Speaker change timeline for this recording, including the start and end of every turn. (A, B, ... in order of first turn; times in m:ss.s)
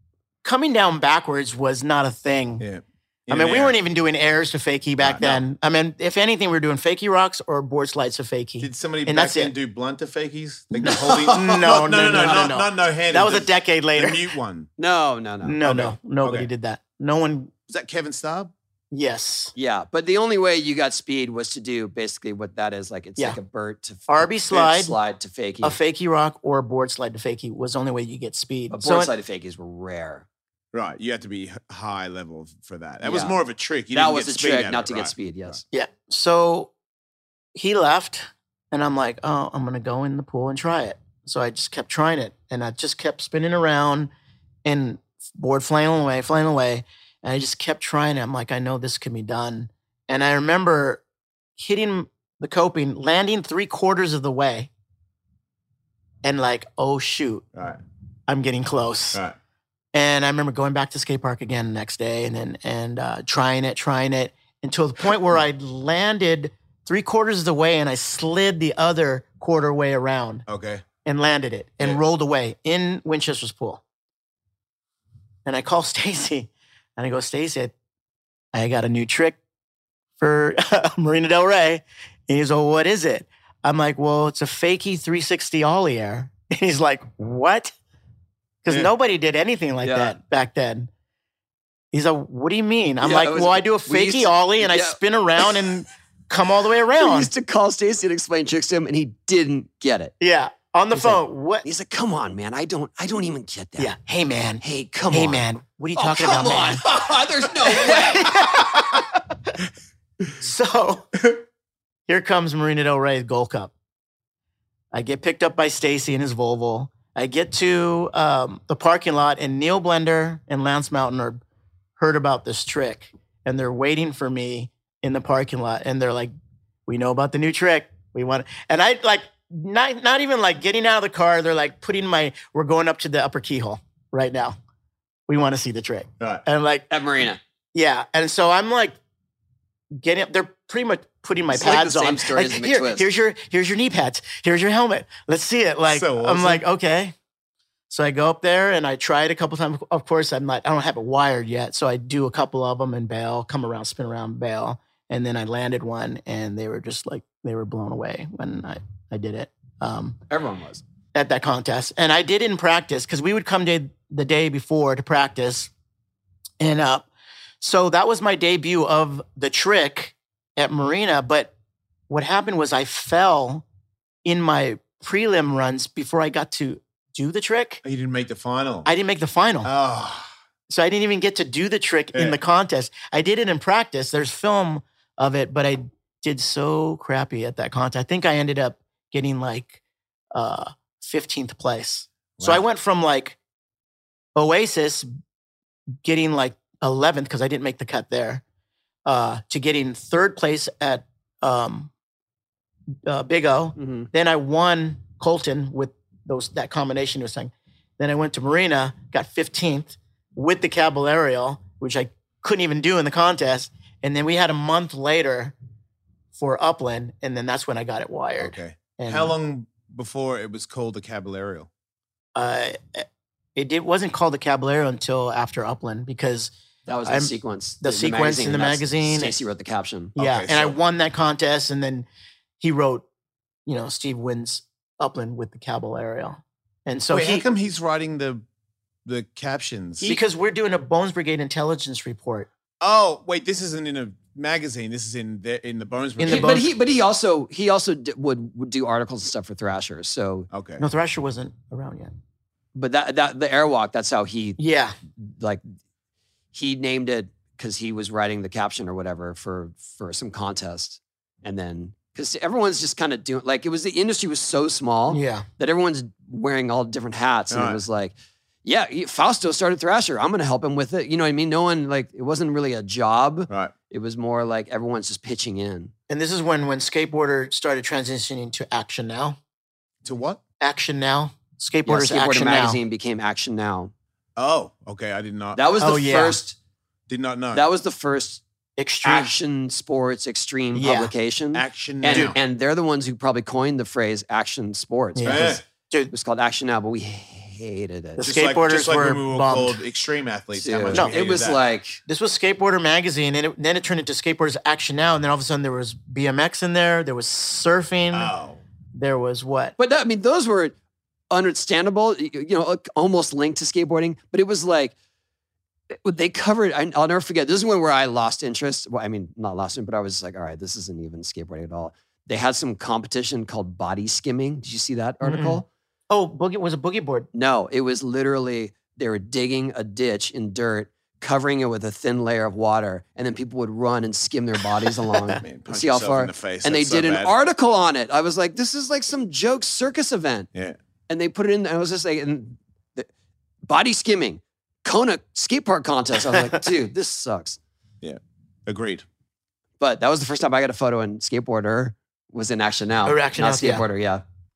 0:00.4-0:02.6 A
0:02.6-0:03.8 B
0:03.3-0:09.5 A
0:05.0-0:05.4 B
0:08.6-0:14.7 B
0:10.7-0:14.3 A
0:12.1-0:12.5 C
0:14.8-0:15.6 C
0:15.4-0:17.5 A
0:15.6-0:16.5 B
0:17.7-0:18.5 B
0:18.9-0:19.5 A
0:19.6-0:25.8 C
0:24.1-0:25.0 A
0:25.6-0:29.1 A
0:28.7-0:30.3 C
0:30.7-0:35.6 B
0:33.0-0:33.4 C
0:33.9-0:35.6 C
0:35.7-0:36.7 A
0:37.5-0:44.1 A
0:44.6-0:51.0 A
0:51.6-0:54.7 A
0:56.2-0:57.4 A
0:57.6-0:57.8 B
0:58.3-0:59.2 A
0:59.9-1:10.4 A
1:10.5-1:10.8 B
1:11.0-1:13.8 A
1:15.5-1:17.7 A
1:18.5-1:19.4 A
1:20.2-1:27.7 A
1:28.6-1:30.9 A
1:29.8-1:30.2 C
1:31.9-1:37.3 A
1:33.0-1:35.5 C
1:37.0-1:40.1 C
1:40.2-1:41.6 A
1:40.9-1:43.9 C
1:43.8-1:46.8 A
1:44.6-1:45.4 C
1:46.0-1:48.5 C
1:47.6-1:49.2 A
1:50.4-1:51.2 A
1:52.1-1:53.7 A
1:54.9-2:01.4 A
2:02.0-2:06.3 A
2:06.9-2:14.6 A
2:15.3-2:16.9 A
2:16.9-2:17.4 C
2:17.7-2:19.0 A
2:20.0-2:27.2 A
2:21.5-2:23.1 C
2:25.9-2:26.6 B
2:27.9-2:40.2 A
2:40.3-2:40.8 C
2:41.2-2:45.7 A
2:46.6-2:47.1 A
2:47.6-2:51.5 A
2:52.1-2:53.6 A
2:54.2-2:57.8 A
2:57.8-2:58.9 B
2:58.8-2:59.7 A
2:59.6-3:00.3 B
3:00.7-3:09.8 A
3:10.3-3:13.4 A
3:12.4-3:12.6 B
3:14.4-3:15.1 A
3:16.0-3:18.4 A
3:19.1-3:21.9 A
3:23.1-3:35.6 A
3:23.8-3:24.1 C
3:36.3-3:39.4 A
3:38.4-3:41.7 B
3:42.4-3:46.5 A
3:46.9-3:50.2 C
3:47.1-3:49.3 A
3:50.2-3:50.8 B
3:50.2-3:52.1 A
3:52.6-3:53.0 A
3:53.7-3:57.5 A
3:57.1-3:58.4 B
3:59.0-4:00.1 B
4:00.0-4:02.5 A
4:02.8-4:06.6 B
4:06.2-4:06.7 A
4:06.3-4:10.5 C
4:10.5-4:10.8 B
4:10.8-4:12.1 A
4:12.8-4:14.6 C
4:14.6-4:15.0 A
4:15.2-4:15.6 C
4:16.5-4:28.1 C
4:25.1-4:25.5 A
4:27.5-4:27.8 B
4:28.6-4:35.9 C
4:36.1-4:39.4 A
4:40.0-4:40.4 B
4:40.6-4:42.8 A
4:41.9-4:43.9 C
4:44.4-4:45.6 B
4:45.6-4:46.6 C
4:45.8-4:46.4 A
4:47.1-4:47.6 B
4:47.5-4:48.4 C
4:48.8-4:49.3 A
4:49.0-4:58.3 C
4:50.7-4:51.1 A
4:51.5-4:52.4 B
4:55.2-4:56.1 A
4:55.3-4:55.6 B
4:58.2-4:59.8 A
4:58.2-5:01.6 B
5:00.6-5:02.0 C
5:02.1-5:08.3 A
5:08.1-5:08.6 B
5:09.0-5:09.8 A
5:09.8-5:10.7 C
5:11.3-5:14.9 C
5:16.0-5:25.7 C
5:25.2-5:27.3 A
5:27.3-5:40.5 C
5:35.4-5:37.4 B
5:41.1-5:43.1 C
5:43.7-5:47.6 C
5:48.0-5:49.0 B
5:49.8-5:54.2 C
5:53.0-5:53.8 A